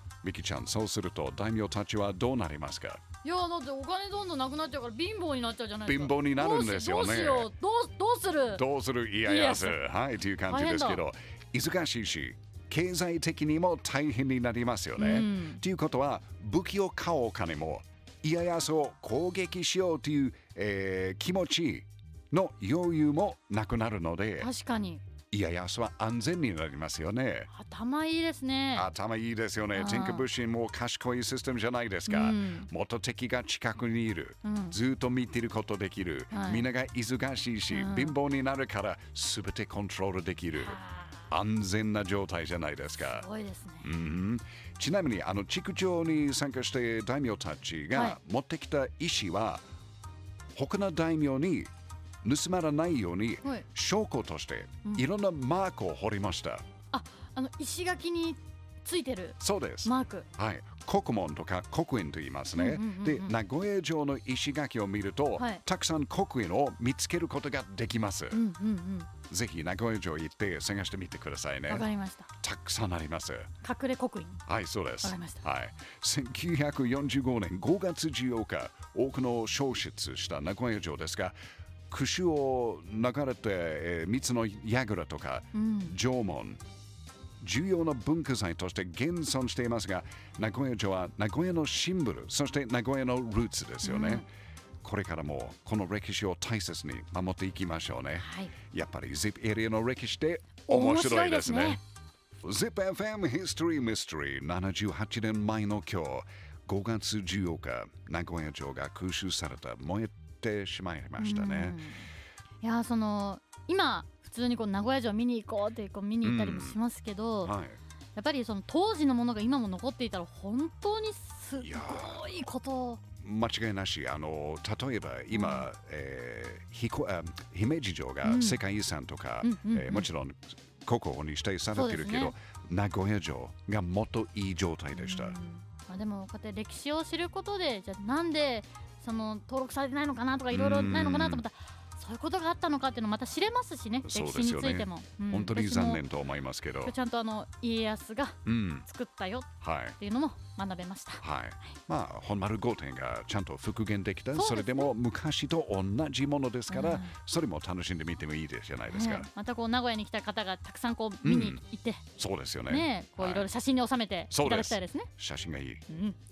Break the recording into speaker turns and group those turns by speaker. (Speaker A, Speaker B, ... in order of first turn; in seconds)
Speaker A: 0.2-3.0, 5.8-7.5, 8.5-24.5, 25.3-27.5, 28.7-43.2, 43.8-49.6, 50.5-51.7, 52.2-56.6, 59.4-68.4, 69.3-71.9, 72.4-73.5, 74.5-81.3, 81.9-86.6, 87.4-94.2, 94.8-101.8, 102.4-111.8, 116.2-116.8, 117.4-117.8, 121.6-122.2, 123.1-135.3, 140.5-141.4, 144.0-146.9, 148.4-148.8, 149.6-149.9, 151.2-159.3, 161.2-161.6, 162.2-163.5, 164.3-165.8
Speaker B: 3.2-8.6, 9.2-9.8, 10.4-11.0, 15.0-15.6, 24.4-25.0, 27.5-28.9, 29.7-30.2, 32.1-32.7, 34.4-34.8, 36.3-36.7, 37.7-38.1, 40.6-41.2, 43.0-43.9, 47.9-48.2, 56.9-60.3, 62.5-63.3, 65.4-65.6, 68.3-69.1, 71.7-72.3, 73.6-74.4, 75.0-75.4, 85.5-85.9, 93.8-94.2, 98.2-98.5, 100.7-101.8, 111.2-112.1, 112.6-117.5, 118.2-123.0, 125.3-125.7, 128.2-128.6, 129.4-130.1, 131.7-132.3, 134.9-146.0, 146.8-151.2, 154.3-154.9, 156.7-157.1, 158.9-162.0, 162.7-165.1, 165.9-166.2